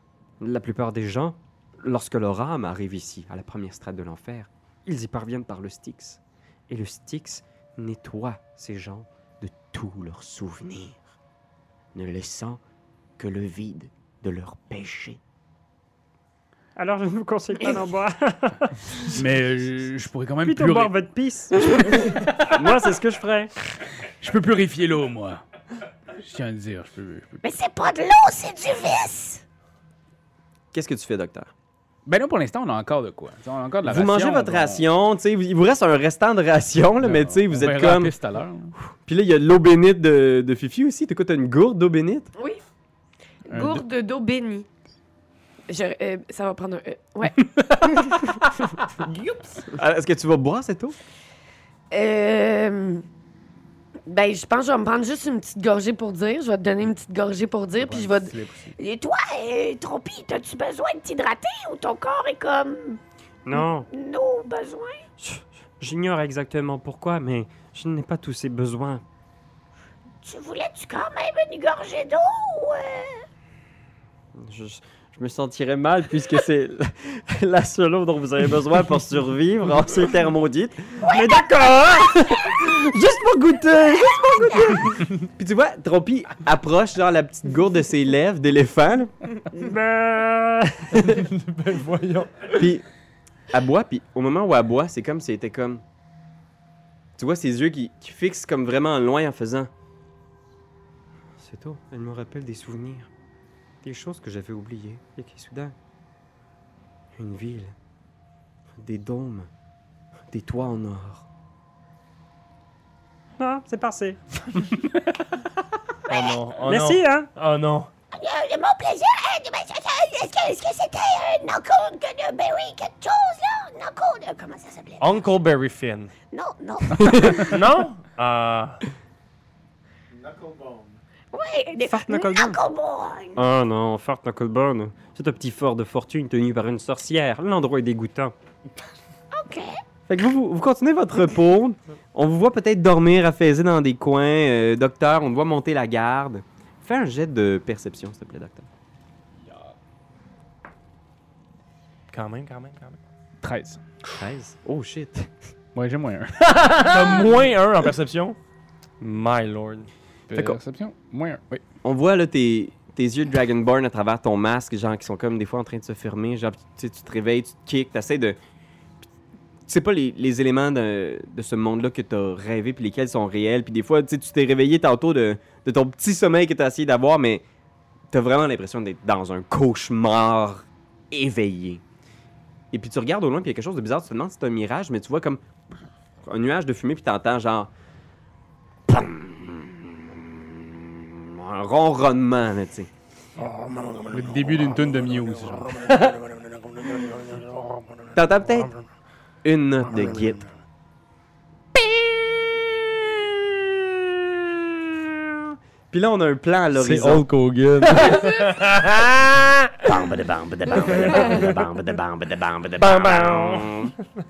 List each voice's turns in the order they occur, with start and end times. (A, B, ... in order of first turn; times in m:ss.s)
0:00.4-0:06.2 A
0:06.7-0:11.0 A
0:11.9-0:12.6 A
0:13.2-0:15.2 A
0:16.8-0:19.2 B
0:19.1-0:20.9 C
0:20.4-0:23.5 B
0:24.2-0:25.4 C
0:26.2-0:27.4 C
0:27.4-0:29.4 D
0:30.7-0:31.5 A
0:32.0-0:34.8 C
0:33.8-0:38.1 A
0:37.0-0:38.7 C
0:38.8-0:42.3 A
0:43.4-0:44.7 E
0:43.5-0:43.8 C
0:45.7-0:48.2 E
0:49.7-0:51.0 A
0:51.9-0:53.0 E
0:54.1-0:58.3 E
0:57.8-0:58.1 C
0:58.8-1:03.0 D
1:03.4-1:03.9 B
1:03.5-1:05.0 D
1:05.3-1:08.7 B
1:10.2-1:13.2 D
1:14.4-1:21.1 A
1:21.0-1:22.1 D
1:21.1-1:22.7 B
1:22.4-1:29.1 A
1:24.1-1:24.8 D
1:29.5-1:31.0 B
1:30.9-1:32.6 F
1:32.5-1:32.8 A
1:33.5-1:35.8 A
1:37.2-1:39.7 A
1:41.4-1:43.1 A
1:43.8-1:45.7 A
1:47.2-1:47.7 A
1:48.8-1:49.5 A
1:50.3-1:51.2 A
1:53.4-1:54.2 B
1:56.1-1:57.9 F
1:56.6-1:57.3 B
1:58.1-2:05.2 D
2:05.0-2:06.1 F
2:06.3-2:07.6 D
2:07.4-2:08.8 F
2:11.3-2:13.4 D
2:11.8-2:12.6 B
2:13.4-2:18.3 B
2:19.3-2:19.8 D
2:20.1-2:28.7 A
2:32.1-2:33.0 F
2:33.4-2:33.8 C
2:34.1-2:35.3 A
2:35.7-2:36.9 C
2:36.5-2:38.4 F
2:39.0-2:39.9 F
2:40.3-2:41.6 C
2:41.8-2:48.4 A
2:49.7-2:57.4 A
2:58.1-3:01.8 A
3:02.7-3:05.4 A
3:06.2-3:07.7 A
3:08.9-3:12.9 A
3:13.4-3:14.0 F
3:14.1-3:16.0 C
3:15.9-3:17.7 F
3:18.1-3:18.7 A
3:19.4-3:20.5 A
3:22.5-3:23.6 A
3:25.2-3:27.3 A
3:26.7-3:29.8 F
3:29.8-3:33.9 A
3:30.8-3:31.6 F
3:32.8-3:33.7 F